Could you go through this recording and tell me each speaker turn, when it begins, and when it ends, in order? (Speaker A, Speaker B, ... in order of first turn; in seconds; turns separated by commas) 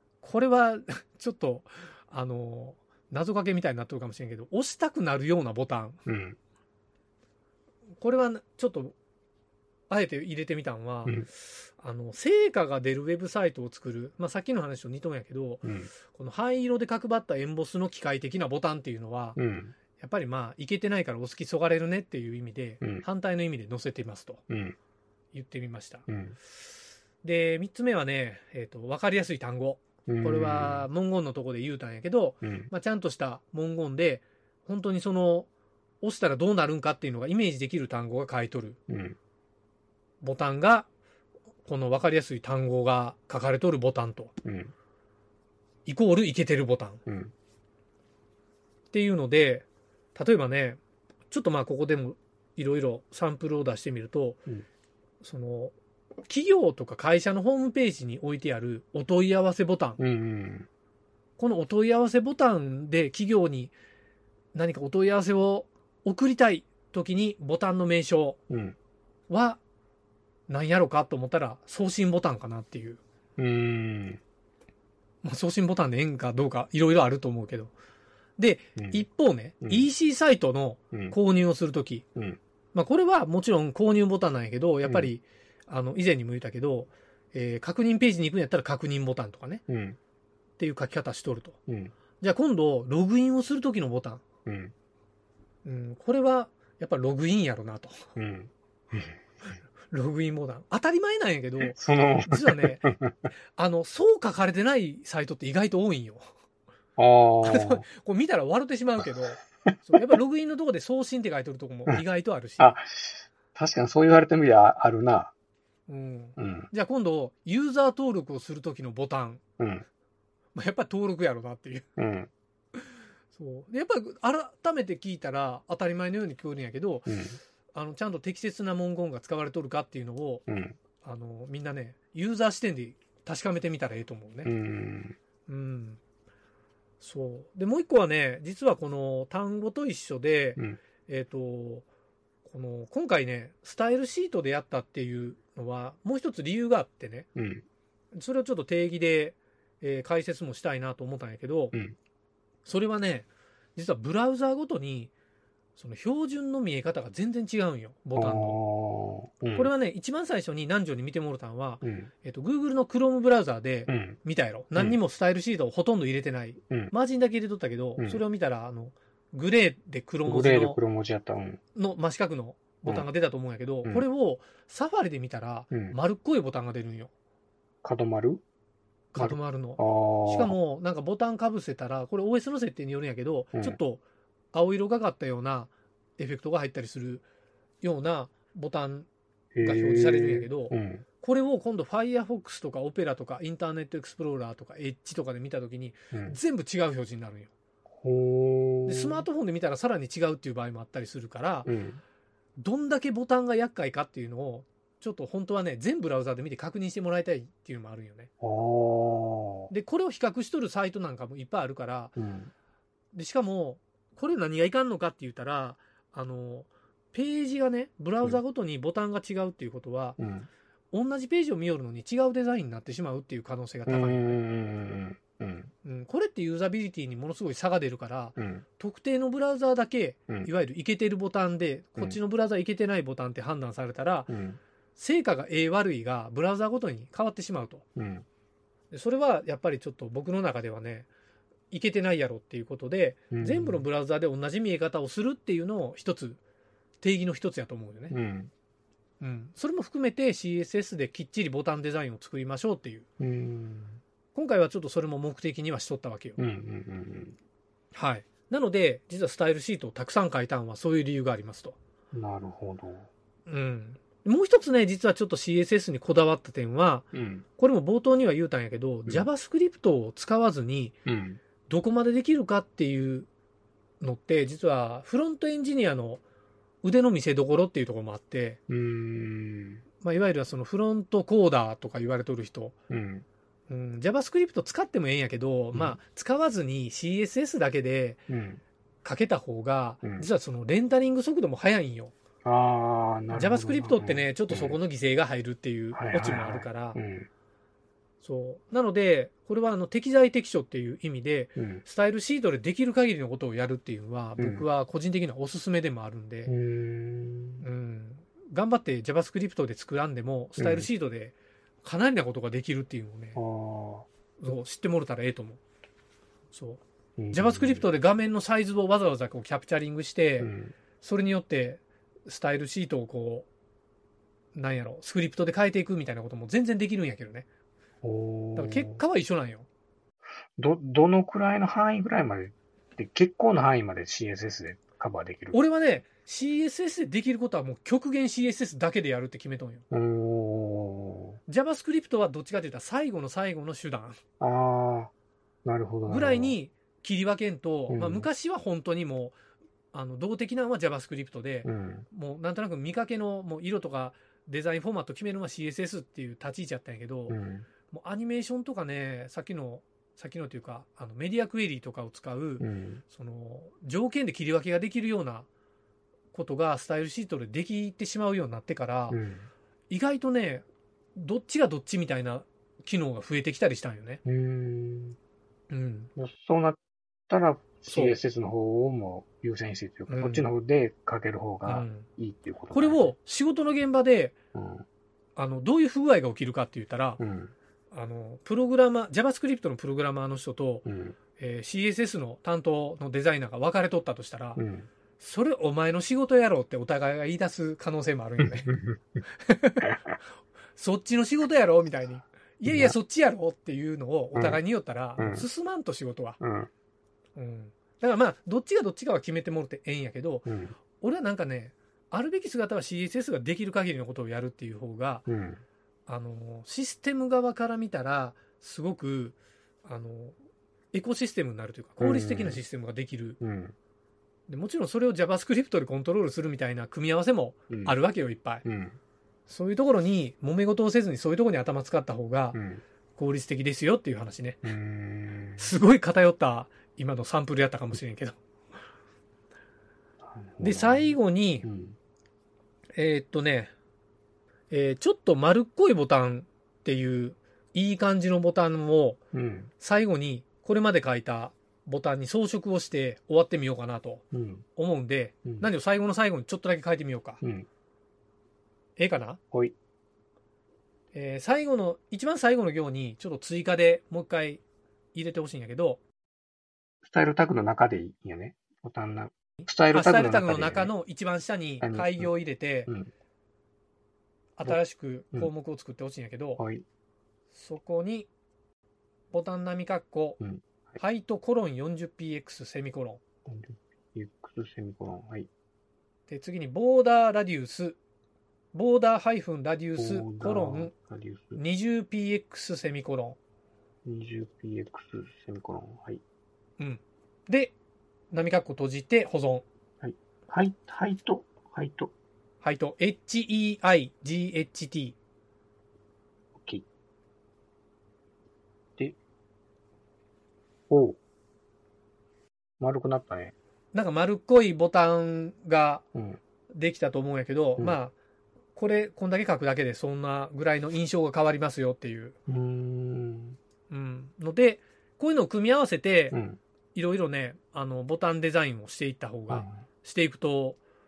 Speaker A: 0.2-6.0, Speaker B: 6.1-6.4, Speaker A: 8.0-8.9, Speaker A: 9.9-19.4, Speaker B: 15.6-15.9, Speaker B: 19.4-19.8, Speaker A: 20.0-24.4, Speaker B: 24.5-24.8, Speaker A: 25.3-26.1, Speaker B: 26.1-26.4, Speaker A: 27.2-35.5, Speaker B: 30.1-30.9, Speaker B: 32.4-32.7, Speaker A: 36.0-38.8, Speaker B: 38.9-39.2, Speaker A: 40.2-40.9, Speaker A: 41.6-44.3, Speaker B: 44.4-44.7, Speaker A: 45.9-47.0, Speaker B: 47.1-47.3, Speaker A: 48.9-50.8, Speaker A: 51.3-54.4, Speaker A: 55.2-55.7, Speaker A: 56.3-60.0, Speaker B: 60.0-60.7, Speaker A: 61.4-63.7, Speaker A: 64.5-68.4, Speaker B: 68.5-68.8, Speaker A: 69.3-69.6, Speaker A: 70.5-73.0, Speaker B: 73.4-74.2, Speaker A: 75.2-77.7, Speaker A: 78.4-82.0, Speaker B: 78.8-79.1, Speaker B: 79.6-79.9, Speaker A: 82.7-89.6, Speaker B: 84.8-85.1, Speaker B: 89.7-90.0, Speaker A: 90.6-91.6, Speaker B: 91.7-91.9, Speaker A: 92.2-94.2, Speaker B: 94.5-94.7, Speaker A: 95.7-98.0, Speaker B: 98.2-99.1, Speaker A: 99.9-102.9, Speaker B: 101.6-103.2, Speaker A: 103.6-106.2, Speaker B: 107.0-107.9, Speaker A: 107.4-112.8, Speaker B: 109.7-110.0, Speaker B: 112.6-115.3, Speaker A: 115.9-119.4, Speaker B: 116.4-116.7, Speaker B: 119.6-119.8, Speaker A: 120.5-121.9, Speaker B: 122.0-122.3, Speaker A: 123.3-127.1, Speaker B: 127.1-127.4, Speaker A: 127.7-130.4, Speaker B: 130.5-130.8, Speaker A: 131.0-134.5, Speaker B: 134.4-135.2, Speaker A: 135.5-136.0, Speaker A: 137.0-141.9, Speaker A: 142.4-147.3, Speaker B: 147.4-147.7, Speaker A: 148.1-151.8, Speaker A: 152.7-155.1, Speaker A: 155.8-158.6, Speaker B: 158.2-159.7, Speaker A: 159.5-170.8, Speaker B: 161.8-162.1, Speaker B: 163.9-164.2, Speaker B: 170.3-171.6, Speaker A: 171.8-177.1, Speaker B: 175.7-176.0, Speaker B: 177.8-178.4, Speaker A: 179.1-187.2, Speaker B: 179.2-180.6, Speaker B: 183.5-183.8, Speaker A: 187.8-189.1, Speaker B: 189.6-191.0, Speaker A: 189.6-197.5, Speaker B: 196.1-196.4, Speaker B: 198.0-199.3, Speaker A: 198.9-201.7, Speaker B: 201.7-202.0, Speaker A: 202.6-208.3, Speaker B: 208.4-209.7, Speaker A: 209.7-212.2, Speaker B: 212.2-212.5, Speaker A: 213.1-220.2, Speaker B: 220.2-220.5, Speaker A: 220.9-224.4, Speaker B: 223.9-225.7, Speaker A: 225.8-234.3, Speaker B: 228.4-228.7, Speaker B: 234.3-234.6, Speaker A: 235.0-237.8, Speaker B: 238.0-238.2, Speaker A: 238.9-241.1, Speaker A: 241.7-246.4, Speaker B: 243.3-243.9, Speaker A: 247.0-248.2, Speaker B: 248.1-248.5, Speaker A: 249.2-253.1, Speaker B: 253.2-254.0, Speaker A: 254.3-256.4, Speaker B: 256.4-257.4, Speaker A: 257.9-261.8, Speaker B: 262.1-263.1, Speaker A: 263.5-270.9, Speaker B: 267.1-267.4, Speaker B: 271.1-271.4, Speaker A: 271.7-273.3, Speaker A: 274.0-276.2, Speaker A: 276.8-278.6, Speaker B: 278.7-279.8, Speaker A: 280.0-282.8, Speaker B: 282.9-283.3, Speaker A: 283.7-288.2, Speaker B: 288.3-288.6, Speaker A: 289.0-292.1, Speaker B: 290.0-290.3, Speaker B: 292.4-294.8, Speaker A: 293.3-297.0, Speaker B: 295.9-297.3, Speaker A: 298.2-306.5, Speaker B: 301.6-301.8, Speaker B: 304.4-304.7, Speaker B: 306.5-307.6, Speaker A: 307.6-313.4, Speaker B: 310.6-310.9, Speaker B: 313.4-314.1, Speaker A: 314.4-315.6, Speaker A: 316.5-323.5, Speaker B: 317.2-317.9, Speaker B: 320.4-320.7, Speaker A: 324.6-327.5, Speaker B: 328.0-329.0, Speaker A: 328.6-329.7, Speaker B: 330.6-335.6, Speaker A: 335.5-339.8, Speaker B: 339.9-341.4, Speaker A: 341.5-344.2, Speaker B: 344.4-345.1, Speaker B: 345.6-346.6, Speaker A: 346.1-349.4, Speaker B: 347.9-348.3, Speaker A: 349.9-357.4, Speaker B: 351.6-352.1, Speaker B: 357.3-357.7, Speaker A: 357.9-365.5, Speaker B: 362.6-363.0, Speaker A: 366.3-369.2, Speaker B: 369.1-369.5, Speaker A: 369.9-370.6, Speaker A: 371.2-374.2, Speaker B: 374.2-375.2, Speaker A: 375.7-376.1, Speaker B: 376.2-383.1, Speaker A: 377.9-378.2, Speaker A: 380.1-380.5, Speaker A: 381.6-382.1, Speaker A: 382.7-384.4, Speaker B: 384.5-384.9, Speaker A: 385.4-387.2, Speaker B: 387.2-387.5, Speaker A: 387.9-390.9, Speaker B: 390.9-391.2, Speaker A: 391.4-394.6, Speaker B: 394.6-394.9, Speaker A: 395.2-398.8, Speaker B: 398.7-399.0, Speaker A: 399.4-400.0, Speaker A: 400.8-406.4, Speaker B: 402.7-403.0, Speaker B: 404.3-404.6, Speaker B: 405.2-405.5, Speaker B: 406.4-406.7, Speaker A: 407.4-415.3, Speaker B: 410.5-410.8, Speaker B: 415.3-415.6, Speaker A: 416.1-420.4, Speaker A: 420.9-423.4, Speaker B: 422.0-422.6, Speaker B: 423.4-423.8, Speaker A: 424.5-428.6, Speaker B: 427.7-428.0, Speaker B: 428.6-429.0, Speaker A: 429.5-432.6, Speaker B: 432.5-432.8, Speaker A: 433.1-434.7, Speaker B: 434.6-435.7, Speaker A: 435.6-438.4, Speaker B: 440.2-442.0, Speaker A: 440.6-441.7, Speaker A: 443.0-443.7, Speaker A: 444.7-449.2, Speaker B: 449.3-449.7, Speaker A: 449.8-454.2, Speaker B: 454.3-454.6, Speaker A: 454.8-457.4, Speaker B: 457.4-457.7, Speaker A: 459.0-459.4, Speaker A: 461.1-464.6, Speaker A: 465.1-466.0, Speaker B: 467.0-470.9, Speaker A: 469.9-472.9, Speaker B: 471.8-473.1, Speaker A: 474.6-476.6, Speaker B: 476.6-476.8, Speaker A: 477.5-478.3, Speaker A: 479.3-480.4, Speaker B: 480.4-481.0, Speaker A: 481.0-483.2, Speaker B: 483.5-485.5, Speaker A: 486.3-488.0, Speaker A: 488.7-490.9, Speaker B: 490.0-491.6, Speaker A: 491.6-493.4, Speaker B: 494.1-496.2, Speaker A: 496.8-497.8, Speaker A: 498.3-499.6, Speaker B: 500.0-502.1, Speaker A: 502.6-505.2, Speaker B: 506.6-506.9, Speaker B: 510.9-511.2, Speaker B: 512.8-513.5, Speaker A: 513.9-516.0, Speaker A: 516.7-518.1, Speaker A: 518.8-522.4, Speaker B: 522.5-523.6, Speaker A: 523.9-526.4, Speaker B: 526.3-526.6, Speaker A: 526.9-530.8, Speaker B: 529.5-529.9